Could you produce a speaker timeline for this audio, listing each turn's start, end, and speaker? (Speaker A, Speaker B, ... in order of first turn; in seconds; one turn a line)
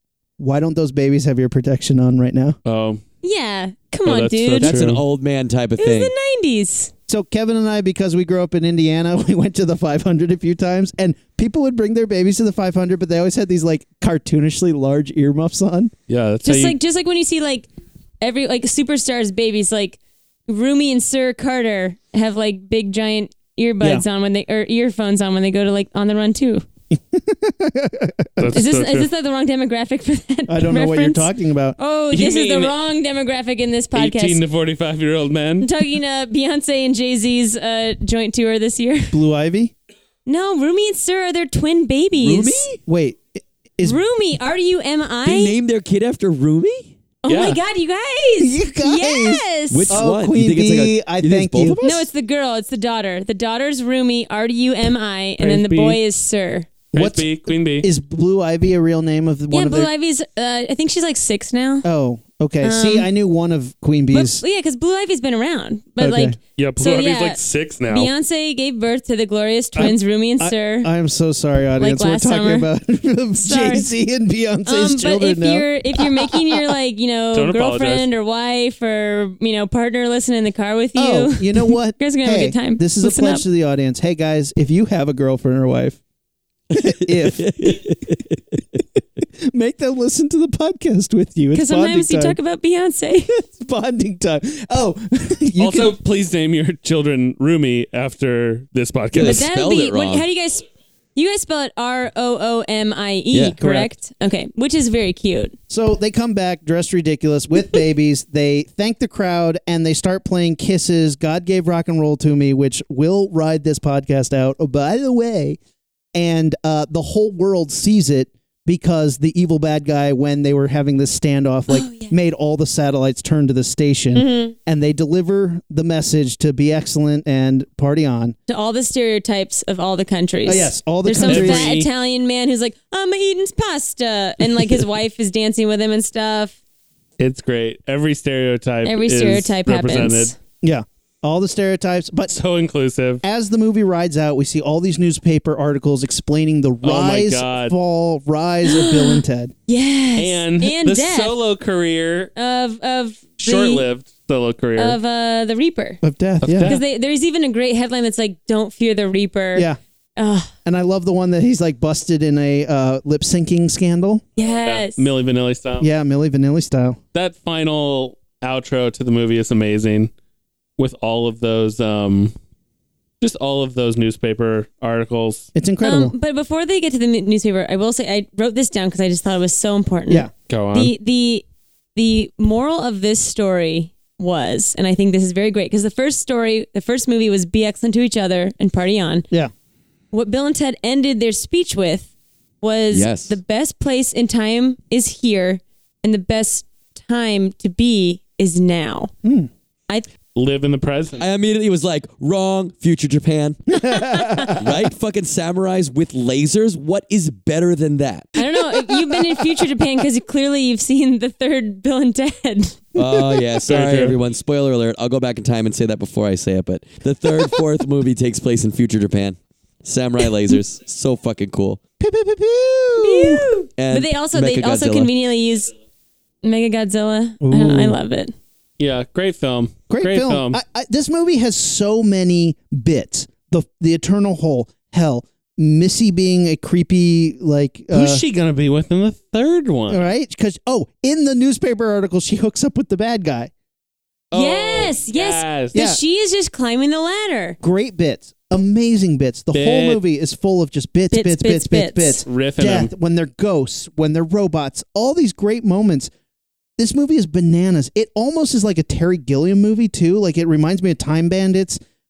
Speaker A: 0.4-2.6
Speaker B: 2.6-3.0
Speaker C: 3.2-4.8
Speaker B: 4.0-5.0
Speaker D: 4.6-6.1
Speaker C: 5.8-6.9
Speaker A: 7.1-15.9
Speaker B: 16.1-16.8
Speaker C: 16.4-17.7
Speaker C: 18.2-26.6
Speaker A: 26.9-28.6
Speaker B: 28.4-29.1
Speaker C: 28.5-34.4
Speaker A: 30.5-31.8
Speaker B: 32.1-32.7
Speaker B: 33.9-35.7
Speaker C: 35.6-39.2
Speaker A: 39.1-39.7
Speaker C: 40.2-42.7
Speaker A: 42.2-44.0
Speaker D: 42.3-42.7
Speaker C: 43.8-45.5
Speaker D: 45.2-46.9
Speaker C: 47.2-50.0
Speaker B: 47.2-47.6
Speaker A: 48.4-52.1
Speaker D: 49.7-51.8
Speaker C: 51.8-56.7
Speaker B: 55.4-56.0
Speaker B: 56.9-57.9
Speaker A: 56.9-59.9
Speaker C: 59.5-61.9
Speaker A: 61.8-64.4
Speaker C: 62.6-63.1
Speaker C: 64.1-70.9
Speaker A: 66.0-66.4
Speaker B: 66.6-68.1
Speaker A: 69.8-76.7
Speaker C: 71.8-72.7
Speaker C: 73.4-73.9
Speaker C: 74.7-83.4
Speaker B: 77.3-78.1
Speaker A: 81.0-86.0
Speaker D: 86.7-88.5
Speaker A: 86.7-87.9
Speaker A: 89.4-92.4
Speaker C: 91.5-93.3
Speaker A: 93.3-96.0
Speaker B: 95.6-99.5
Speaker D: 99.1-100.2
Speaker C: 99.2-100.6
Speaker C: 101.2-105.5
Speaker D: 103.3-103.6
Speaker A: 103.6-103.9
Speaker A: 105.7-115.6
Speaker A: 116.1-128.3
Speaker C: 121.7-122.1
Speaker C: 124.1-124.5
Speaker C: 128.5-136.6
Speaker A: 130.4-131.8
Speaker B: 131.2-131.9
Speaker B: 137.2-140.3
Speaker C: 138.8-140.3
Speaker A: 140.6-142.3
Speaker B: 142.3-143.2
Speaker A: 143.2-149.5
Speaker B: 146.8-147.7
Speaker C: 148.6-151.4
Speaker B: 150.2-152.3
Speaker C: 152.3-153.8
Speaker B: 153.4-155.0
Speaker C: 154.8-156.0
Speaker A: 156.0-156.7
Speaker B: 156.4-156.8
Speaker C: 156.6-160.5
Speaker A: 160.6-164.2
Speaker C: 164.4-165.1
Speaker B: 164.6-165.9
Speaker A: 165.8-167.0
Speaker B: 167.1-170.1
Speaker B: 170.8-172.3
Speaker B: 173.2-175.5
Speaker A: 175.5-176.1
Speaker C: 175.8-181.4
Speaker B: 180.5-180.9
Speaker C: 181.9-189.2
Speaker C: 190.1-192.1
Speaker C: 192.6-199.1
Speaker D: 192.9-193.4
Speaker A: 199.2-199.5
Speaker B: 200.3-201.2
Speaker D: 201.2-203.7
Speaker A: 203.7-204.8
Speaker C: 203.8-204.6
Speaker D: 204.5-208.3
Speaker C: 208.3-212.8
Speaker A: 212.9-213.4
Speaker D: 212.9-221.8
Speaker B: 213.7-214.2
Speaker A: 222.0-223.5
Speaker C: 223.0-225.7
Speaker D: 223.8-225.1
Speaker C: 226.4-228.3
Speaker A: 227.4-228.0
Speaker B: 228.8-230.6
Speaker A: 229.9-238.2
Speaker B: 237.9-240.0
Speaker A: 239.9-243.5
Speaker B: 244.3-245.8
Speaker C: 244.3-247.6
Speaker A: 245.7-246.0
Speaker A: 247.6-256.1
Speaker B: 249.5-250.0
Speaker C: 251.1-252.2
Speaker B: 252.2-252.9
Speaker A: 256.8-261.8